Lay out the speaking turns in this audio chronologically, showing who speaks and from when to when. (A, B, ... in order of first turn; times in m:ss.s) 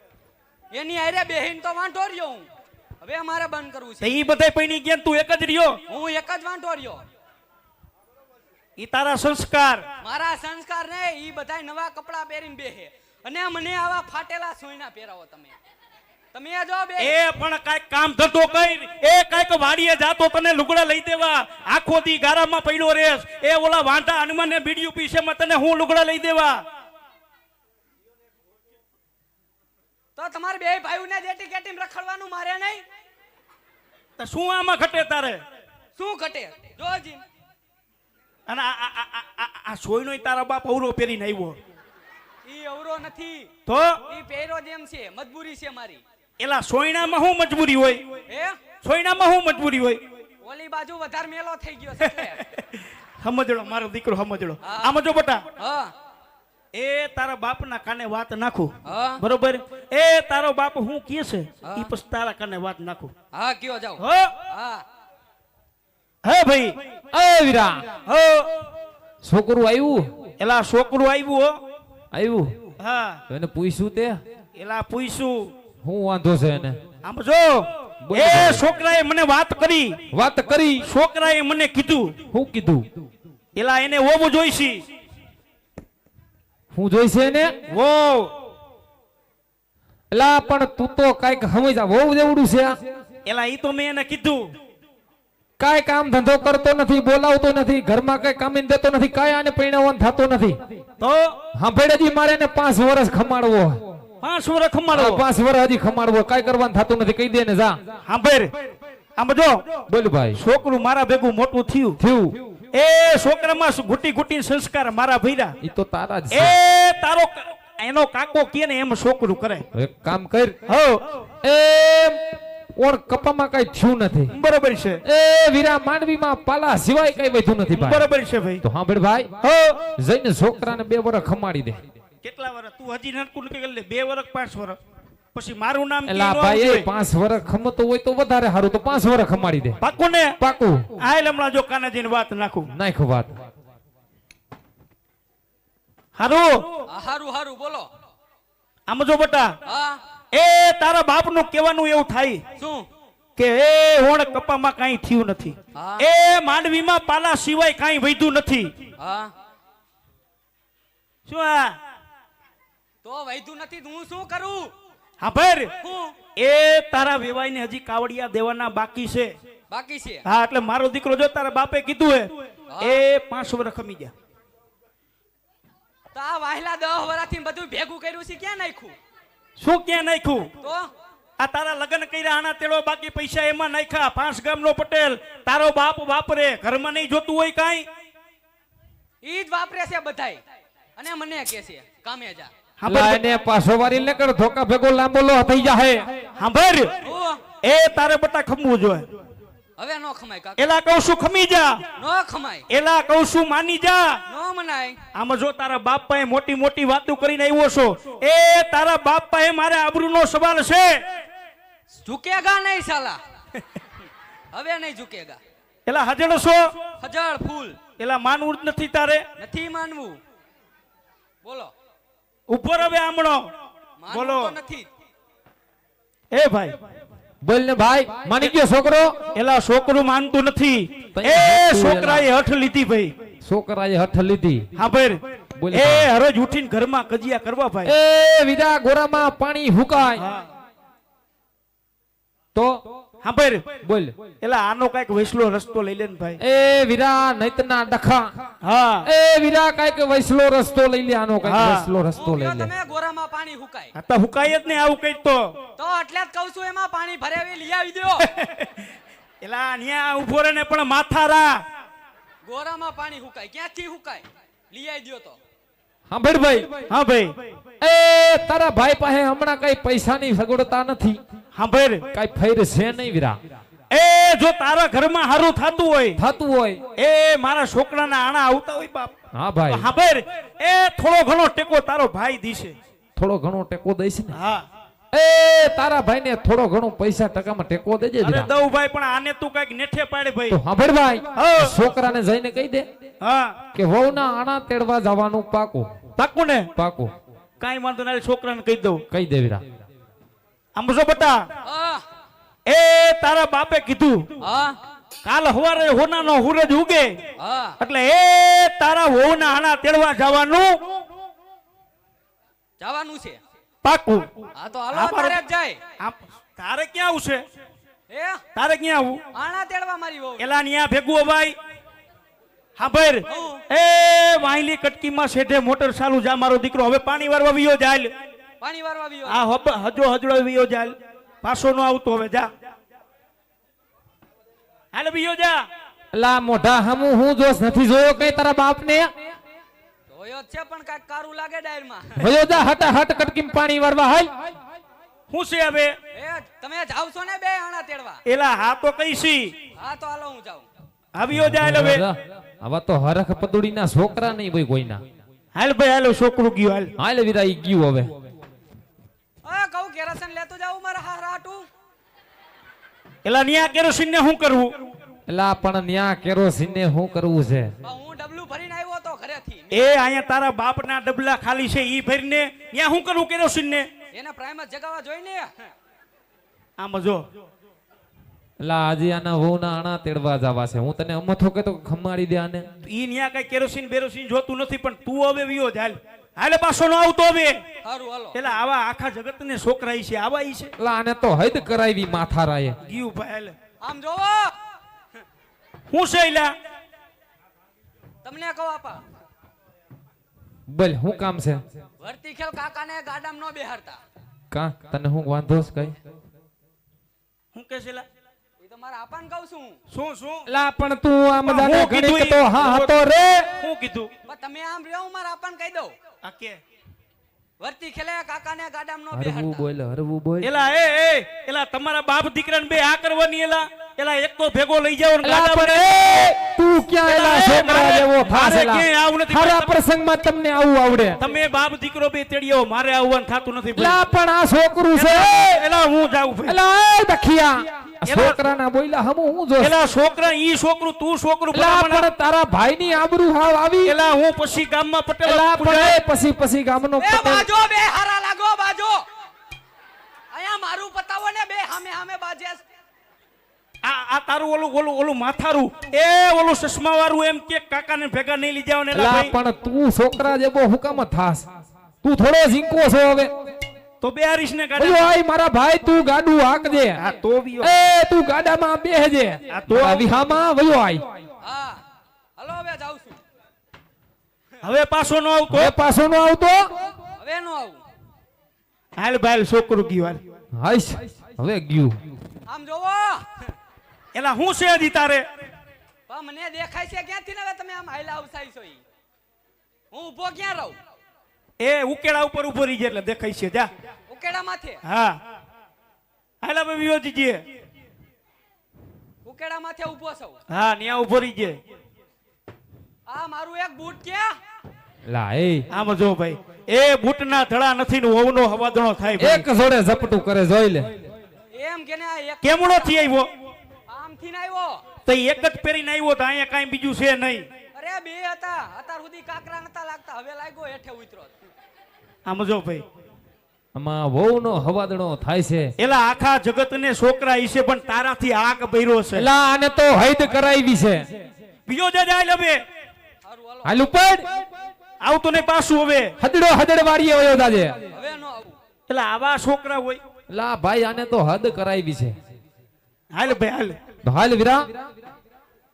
0:00.7-0:02.5 A
0:03.0-0:04.4 A
0:04.0-0:05.8 B
0:05.9-0:07.0 A
0:08.8-0:09.8 B
0:10.0-0:15.5 A
0:16.3-0:17.2 A
0:17.0-0:26.6 B
0:30.2-0:32.8 A
0:34.2-0:35.4 B
0:36.0-0:37.2 A
0:38.5-0:41.6 B
0:42.4-0:43.5 A
0:43.6-0:44.0 B
0:44.1-0:46.0 A
0:46.4-0:48.0 B
0:48.3-0:48.6 A
0:48.8-0:50.0 B
0:50.4-0:52.4 A
0:52.0-0:55.4 B
0:54.6-0:55.0 A
0:55.6-0:55.9 A
0:56.7-1:03.1 B
0:58.8-0:59.2 A
1:01.6-1:01.9 A
1:03.3-1:04.8 A
1:04.0-1:04.4 B
1:06.2-1:06.8 B
1:07.1-1:07.9 C
1:08.0-1:08.5 B
1:09.2-1:10.1 C
1:10.4-1:11.5 B
1:12.1-1:12.5 C
1:12.8-1:13.2 B
1:13.3-1:14.2 C
1:14.6-1:15.5 B
1:15.8-1:16.8 C
1:17.0-1:20.0 B
1:18.0-1:18.6 C
1:20.1-1:20.9 C
1:20.8-1:22.2 B
1:22.3-1:22.9 C
1:23.5-1:24.8 B
1:26.7-1:27.5 C
1:27.7-1:28.3 B
1:30.1-1:32.8 C
1:33.2-1:34.5 B
1:35.6-1:40.6 C
1:41.0-1:41.4 B
1:41.6-1:43.8 C
1:44.2-1:45.2 B
1:44.9-1:47.8 C
1:48.0-1:48.5 B
1:49.2-1:49.6 B
1:49.9-1:50.4 C
1:50.3-1:52.0 B
1:52.0-1:52.4 C
1:52.7-1:55.6 B
1:55.6-1:56.6 C
1:56.3-1:59.6 B
1:59.7-2:00.6 C
2:00.7-2:01.0 B
2:01.4-2:02.2 C
2:02.8-2:04.3 C
2:04.3-2:05.0 B
2:05.0-2:08.0 C
2:07.7-2:08.6 B
2:08.6-2:09.3 C
2:09.4-2:09.8 B
2:10.0-2:11.8 C
2:12.2-2:14.8 B
2:15.3-2:16.9 B
2:16.0-2:19.8 C
2:19.8-2:20.4 B
2:20.4-2:20.8 C
2:21.0-2:22.7 B
2:22.7-2:23.3 C
2:26.2-2:26.7 B
2:26.9-2:27.9 A
2:28.9-2:29.5 B
2:29.6-2:30.0 A
2:30.3-2:32.4 B
2:32.6-2:32.8 A
2:33.4-2:38.7 B
2:35.7-2:36.0 A
2:39.0-2:39.3 A
2:41.2-2:41.8 B
2:43.0-2:44.7 A
2:45.2-2:45.7 B
2:45.8-2:46.2 A
2:46.4-2:49.3 B
2:49.7-2:50.2 A
2:50.2-2:54.1 B
2:52.7-2:53.0 A
2:56.1-2:59.0 A
2:59.6-3:00.5 B
3:00.6-3:00.9 A
3:01.4-3:07.8 B
3:09.2-3:10.4 A
3:11.0-3:12.5 A
3:12.8-3:13.2 B
3:12.9-3:16.0 C
3:16.4-3:17.0 B
3:17.0-3:17.4 A
3:17.6-3:19.1 B
3:19.8-3:20.6 A
3:20.6-3:21.8 B
3:22.0-3:22.6 A
3:22.7-3:24.2 B
3:24.3-3:25.0 A
3:25.1-3:31.0 B
3:32.0-3:33.2 A
3:34.5-3:35.4 A
3:35.8-3:36.7 B
3:37.0-3:37.8 A
3:38.0-3:39.2 B
3:39.4-3:40.2 A
3:41.4-3:41.7 A
3:42.5-3:43.4 B
3:44.0-3:44.9 A
3:44.1-3:44.5 B
3:46.3-3:46.7 B
3:47.4-3:49.2 C
3:49.3-3:53.1 B
3:51.1-3:52.3 C
3:53.4-3:54.7 C
3:54.7-3:57.9 B
3:55.6-3:56.1 C
3:57.8-4:00.2 C
4:00.2-4:00.5 B
4:02.5-4:02.8 C
4:03.2-4:03.6 B
4:03.8-4:04.1 C
4:04.4-4:06.4 B
4:06.4-4:08.3 C
4:08.6-4:09.1 B
4:09.0-4:12.7 C
4:11.4-4:11.9 B
4:12.2-4:13.9 A
4:13.9-4:15.5 B
4:15.8-4:18.2 A
4:18.2-4:18.8 B
4:19.4-4:21.6 B
4:22.4-4:25.4 A
4:26.1-4:26.7 C
4:26.9-4:27.3 B
4:27.8-4:31.2 C
4:31.5-4:32.0 B
4:32.1-4:33.4 C
4:33.9-4:36.2 B
4:36.2-4:36.8 C
4:37.0-4:39.1 B
4:39.3-4:39.9 C
4:39.7-4:42.7 B
4:43.2-4:44.4 C
4:44.3-4:44.6 B
4:45.1-4:48.5 C
4:48.2-4:50.6 B
4:50.5-4:52.9 C
4:51.3-4:51.7 B
4:53.2-4:53.6 B
4:53.7-4:55.9 C
4:56.2-4:56.7 B
4:56.8-4:57.1 C
4:57.6-4:59.0 B
4:59.1-4:59.6 C
5:00.7-5:01.4 B
5:01.6-5:02.0 A
5:02.6-5:04.3 B
5:04.4-5:04.8 A
5:05.2-5:07.2 B
5:07.4-5:07.8 A
5:07.8-5:10.8 B
5:12.8-5:13.4 A
5:13.8-5:14.3 B
5:14.5-5:15.8 A
5:14.9-5:15.4 B
5:16.0-5:17.4 B
5:18.1-5:18.4 A
5:18.6-5:19.2 B
5:19.3-5:20.5 A
5:20.4-5:21.6 B
5:22.8-5:28.1 B
5:23.3-5:23.6 A
5:28.6-5:29.4 A
5:29.2-5:32.5 B
5:34.9-5:35.6 B
5:36.1-5:39.1 C
5:40.1-5:42.3 A
5:42.2-5:44.3 C
5:45.3-5:45.9 B
5:46.1-5:48.2 A
5:48.2-5:49.5 B
5:49.8-5:50.7 A
5:51.1-5:52.0 B
5:51.3-5:55.0 C
5:55.5-5:56.9 B
5:57.0-5:58.1 C
5:59.4-6:01.7 A
6:03.2-6:04.7 B
6:05.3-6:07.7 C
6:07.8-6:09.8 A
6:09.7-6:13.9 B
6:14.1-6:15.7 A
6:16.8-6:17.2 B
6:18.6-6:22.6 C
6:22.8-6:27.6 B
6:27.8-6:28.4 A
6:28.3-6:30.7 B
6:30.8-6:32.8 C
6:32.8-6:33.5 B
6:33.8-6:34.5 A
6:35.9-6:36.5 B
6:38.2-6:39.0 A
6:40.7-6:41.6 C
6:42.0-6:44.0 A
6:44.5-6:45.9 C
6:47.5-6:48.0 B
6:48.6-6:49.8 A
6:49.9-6:50.5 B
6:50.5-6:53.5 C
6:51.4-6:52.9 B
6:53.6-6:54.1 B
6:54.3-6:55.9 A
6:56.2-6:56.6 B
6:57.6-6:59.6 A
6:59.1-7:00.5 C
7:00.4-7:06.3 B
7:05.2-7:11.2 C
7:07.0-7:09.8 B
7:11.2-7:14.0 B
7:13.7-7:15.5 C
7:14.9-7:16.6 B
7:16.5-7:19.7 C
7:18.1-7:18.4 B
7:19.6-7:22.1 B
7:21.5-7:23.9 C
7:23.8-7:26.0 B
7:25.2-7:27.5 C
7:27.0-7:29.0 A
7:30.3-7:32.6 A
7:33.8-7:39.3 B
7:38.9-7:41.5 C
7:42.0-7:43.3 C
7:44.0-7:45.1 B
7:44.8-7:47.0 C
7:47.0-7:47.7 B
7:47.6-7:51.0 C
7:49.5-7:50.1 B
7:51.4-7:51.8 A
7:52.4-7:53.2 A
7:54.6-7:55.7 B
7:55.5-7:56.6 C
7:57.2-7:57.8 A
7:59.0-8:00.2 B
8:00.6-8:02.0 C
8:02.5-8:03.5 A
8:04.1-8:05.2 B
8:06.1-8:08.8 A
8:09.9-8:10.8 A
8:11.6-8:13.7 B
8:14.1-8:14.8 A
8:14.8-8:15.2 B
8:16.4-8:17.4 B
8:19.2-8:20.4 A
8:20.5-8:21.6 B
8:23.1-8:24.4 A
8:25.0-8:25.7 C
8:25.7-8:29.5 B
8:29.2-8:30.9 C
8:31.5-8:33.0 A
8:32.4-8:33.3 B
8:33.9-8:34.8 A
8:35.0-8:37.5 B
8:37.7-8:41.4 A
8:42.2-8:42.8 B
8:43.7-8:45.7 C
8:45.8-8:49.3 B
8:49.2-8:51.1 C
8:51.7-8:52.6 B
8:53.2-8:53.8 A
8:53.6-8:54.2 C
8:55.0-8:56.1 B
8:56.2-8:57.8 C
8:57.9-8:58.5 A
8:58.9-9:00.0 B
9:00.3-9:02.2 C
9:03.1-9:03.8 B
9:04.0-9:04.6 C